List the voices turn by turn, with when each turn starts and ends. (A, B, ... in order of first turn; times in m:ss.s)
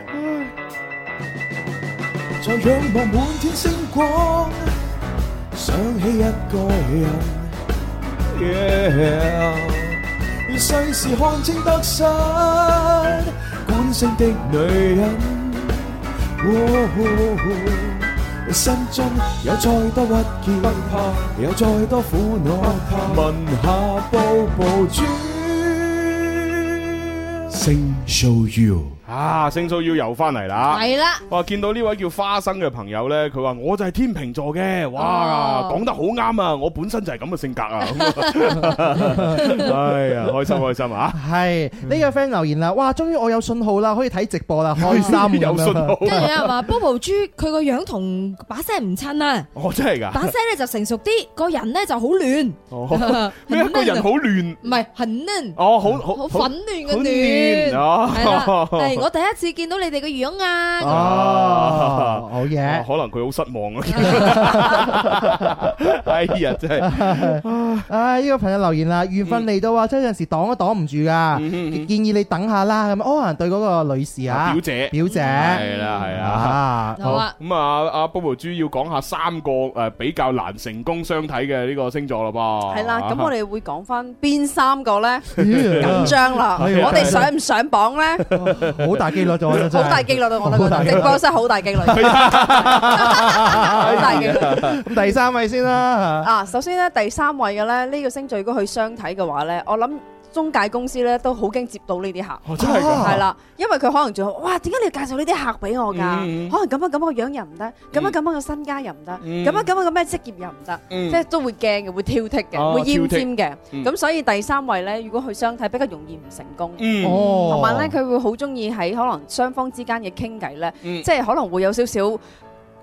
0:00.2-0:00.5 A
0:02.4-0:04.7 B
0:05.5-0:07.6 B
0:08.3-0:26.4 B
0:23.0-0:23.4 A
0:27.5-0:29.0 B
0:29.1-0:41.2 A
0:30.7-0:31.2 C
0:35.0-0:35.8 C
0:38.1-0:38.8 C
0:39.1-0:39.4 D
0:41.1-0:46.4 D
0:44.8-0:46.5 A
0:44.9-0:45.2 C
0:46.0-0:49.5 C
0:49.6-0:50.3 A
0:50.1-0:54.1 C
0:52.7-0:54.6 A
0:54.6-1:01.1 C
0:55.6-0:59.0 A
1:00.8-1:02.9 D
1:00.8-1:07.9 A
1:03.9-1:04.5 C
1:04.1-1:04.9 D
1:06.8-1:15.6 D
1:11.3-1:11.9 A
1:14.3-1:23.3 A
1:15.1-1:16.1 C
1:16.2-1:17.2 D
1:17.0-1:17.3 C
1:22.7-1:28.3 E
1:25.4-1:27.3 A
1:25.4-1:27.3 D
1:28.3-1:30.0 A
1:28.4-1:31.2 D
1:29.7-1:34.7 E
1:30.6-1:31.2 A
1:31.8-1:34.8 A
1:32.0-1:36.3 D
1:36.2-2:02.2 E
1:42.4-1:43.3 A
1:42.6-1:43.2 D
1:45.9-1:46.6 A
1:49.2-1:49.7 A
1:50.9-1:51.2 A
1:52.5-1:53.9 A
1:56.8-1:57.2 A
1:57.0-1:57.9 D